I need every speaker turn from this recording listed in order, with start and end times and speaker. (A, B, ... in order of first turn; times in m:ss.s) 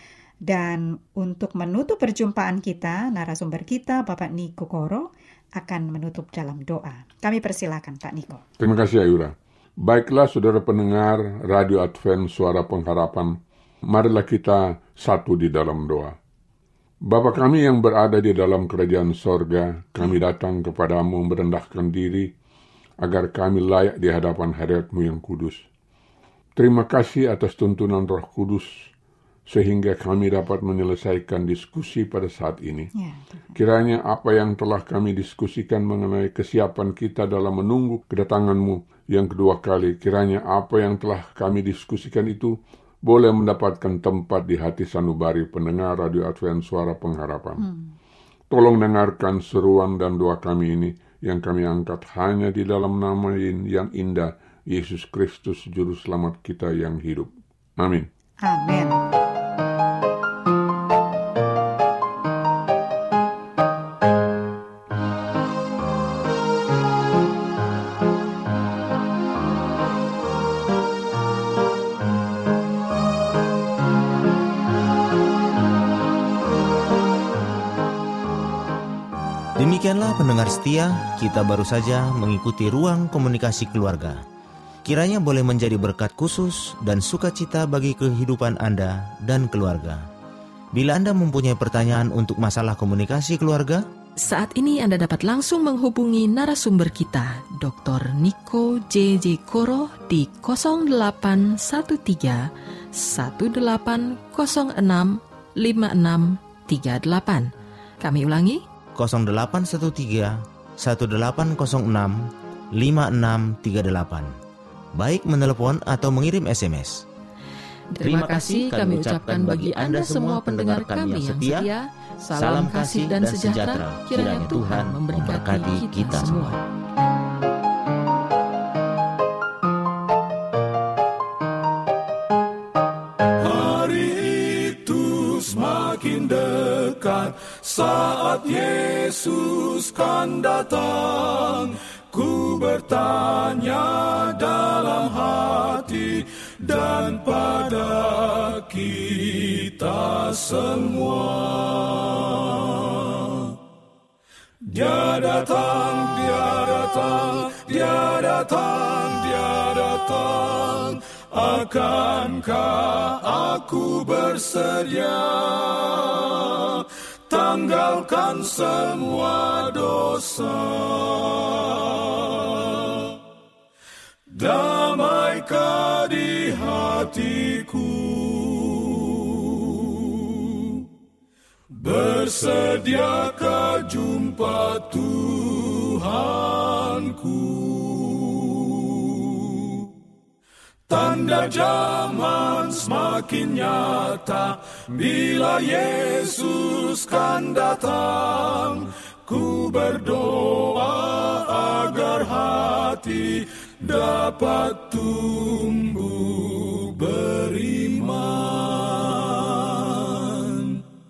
0:00.4-0:08.4 A
0:08.6-0:16.1 B
0:17.0-0:22.3 B
0:23.0-0:25.6 B
0:26.6-0:28.9 B
0:29.5-0:32.9 B
0:33.0-0:33.4 A
0:33.6-0:47.6 B
0:47.6-0:47.9 A
0:48.5-0:58.1 B
0:58.4-0:59.0 A
1:19.6-1:24.2 C
1:24.8-1:30.0 C
1:30.7-1:33.8 C
1:34.2-1:47.5 D
1:48.0-1:48.6 D
1:49.0-1:54.3 C
1:55.0-1:57.0 C
1:57.9-2:06.6 D
1:58.0-2:01.7 C
2:02.3-2:06.5 C
2:13.4-2:33.5 E
2:34.6-2:53.1 E
2:54.3-3:00.8 E
3:01.8-3:09.9 E
3:10.9-3:30.8 E